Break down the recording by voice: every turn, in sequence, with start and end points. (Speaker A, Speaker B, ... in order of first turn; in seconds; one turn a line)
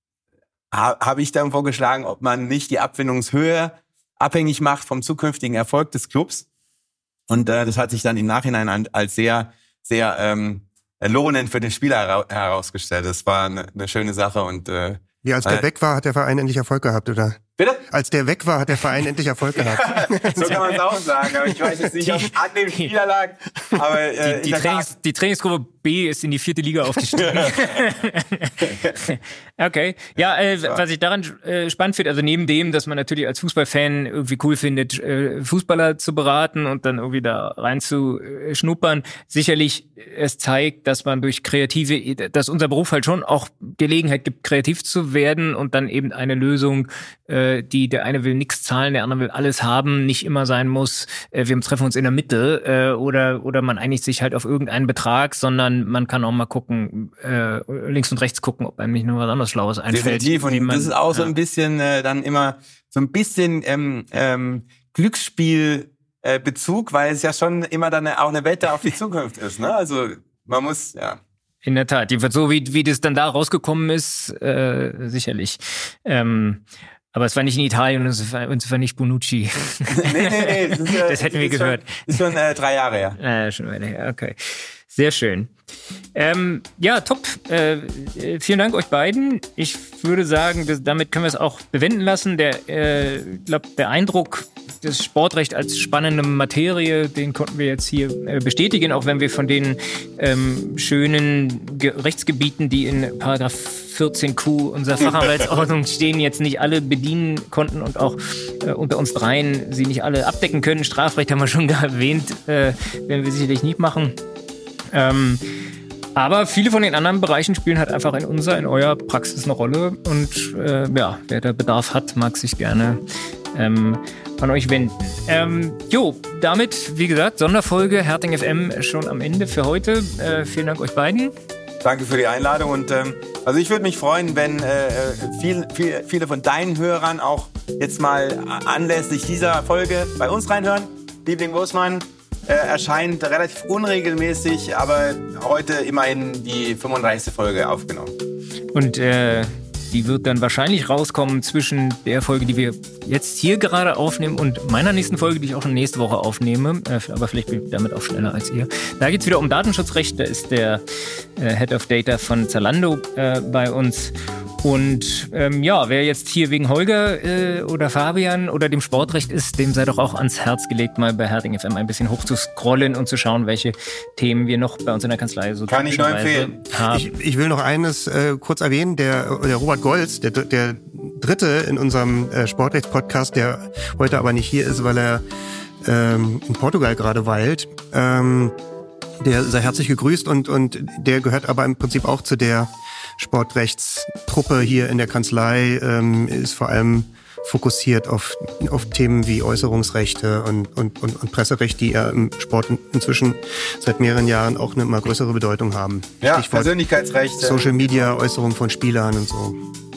Speaker A: 0.7-6.5
Speaker A: 7.3-15.6
Speaker B: 15.2-20.7
Speaker A: 19.6-24.9
Speaker C: 20.3-22.9
Speaker C: 24.2-61.3
Speaker A: 27.1-27.8
Speaker A: 28.6-29.0
Speaker A: 59.9-71.2
Speaker C: 71.6-82.0
Speaker A: 79.9-83.2
Speaker C: 83.2-85.5
Speaker C: 86.1-114.2
Speaker C: 114.9-115.4
Speaker C: 116.2-123.0
Speaker C: 123.5-131.3
Speaker A: 131.8-148.1
Speaker C: 148.7-160.8
Speaker C: 161.4-177.1
Speaker A: 175.7-176.6
Speaker B: 176.9-185.2
Speaker B: 185.8-188.5
Speaker B: 189.2-206.7
Speaker A: 206.2-208.1
Speaker B: 207.4-209.6